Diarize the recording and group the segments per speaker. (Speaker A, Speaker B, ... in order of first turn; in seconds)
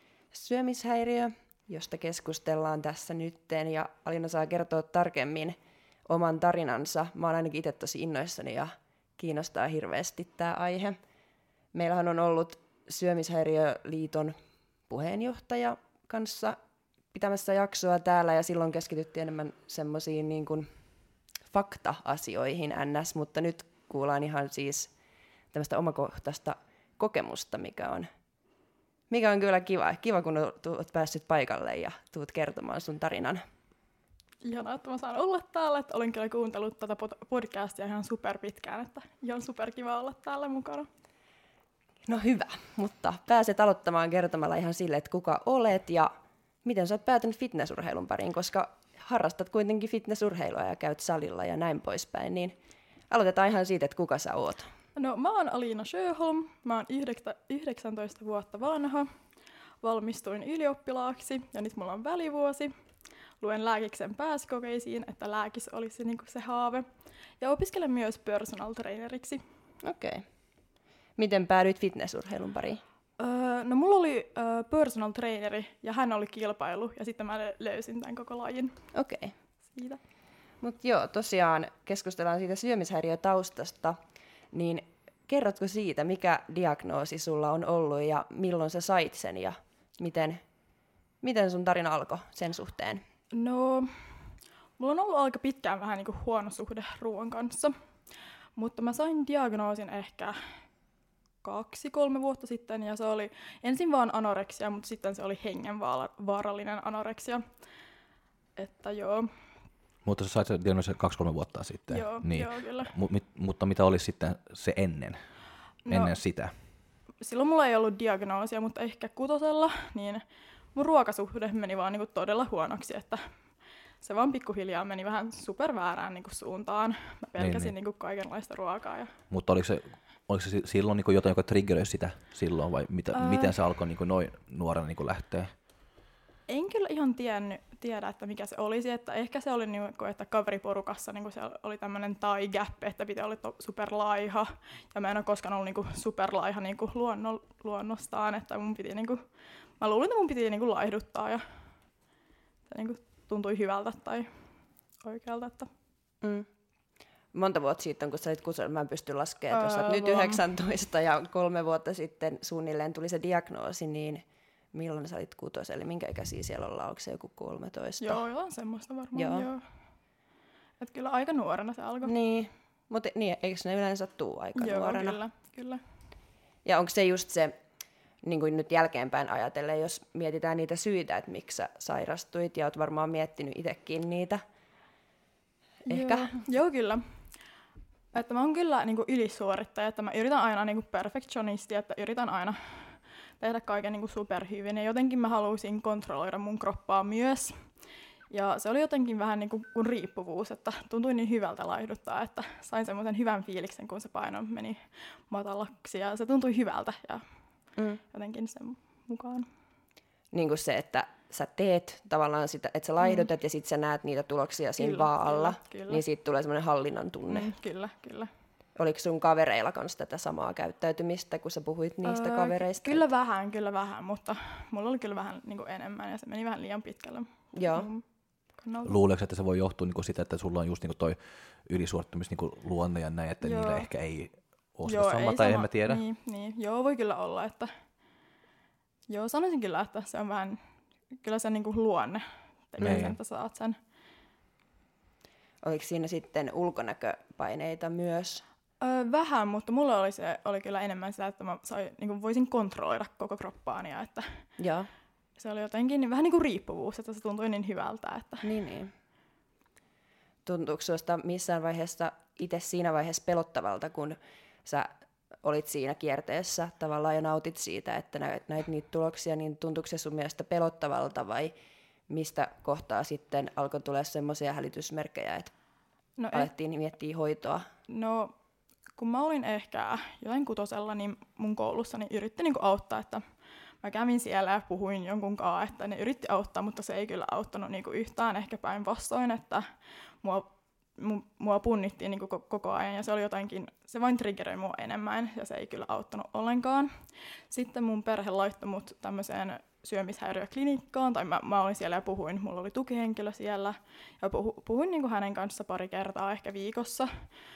Speaker A: 0.3-11.0, 11.7-14.3, 14.9-16.6, 17.1-20.7, 21.5-24.9, 25.5-28.1, 29.1-33.4, 42.1-46.1, 46.6-52.5, 53.1-54.7, 69.8-70.3, 71.2-72.8, 78.9-79.3, 80.6-84.0, 84.5-90.4, 91.2-93.0, 156.2-156.5, 157.3-168.2, 169.2-169.5, 172.1-175.2, 176.7-177.6, 178.2-184.4, 185.9-186.3, 207.8-208.0, 210.3-217.5, 218.8-223.1, 227.5-227.9, 245.6-248.4, 254.6-254.9, 258.4-258.9, 260.4-271.5, 272.1-275.5, 276.3-277.7
Speaker B: 34.5-40.9, 55.0-59.1, 59.8-62.7, 63.4-66.8, 67.4-69.4, 73.2-78.8, 79.7-80.0, 93.3-93.9, 94.8-97.7, 98.6-100.4, 101.4-107.4, 108.6-109.3, 111.9-112.9, 115.9-116.2, 117.2-120.2, 120.8-123.2, 124.0-129.1, 133.1-133.5, 136.5-149.2, 149.8-151.4, 152.7-154.3, 155.0-155.7, 159.5-160.4, 168.0-169.6, 170.8-172.1, 174.6-175.8, 185.9-187.0, 188.1-197.7, 198.3-207.2, 208.1-209.5, 213.0-213.3, 214.8-216.0, 217.3-218.3, 222.1-228.0, 228.6-228.9, 233.4-233.9, 234.9-237.7, 239.1-240.6, 241.2-243.8, 248.8-254.4, 255.4-258.5, 276.2-276.5, 277.9-278.3, 279.0-283.2, 283.8-289.6, 290.2-296.9, 297.5-307.1
Speaker C: 110.0-115.2, 115.9-116.6, 127.4-127.7, 129.3-135.5, 228.8-236.0, 242.8-243.2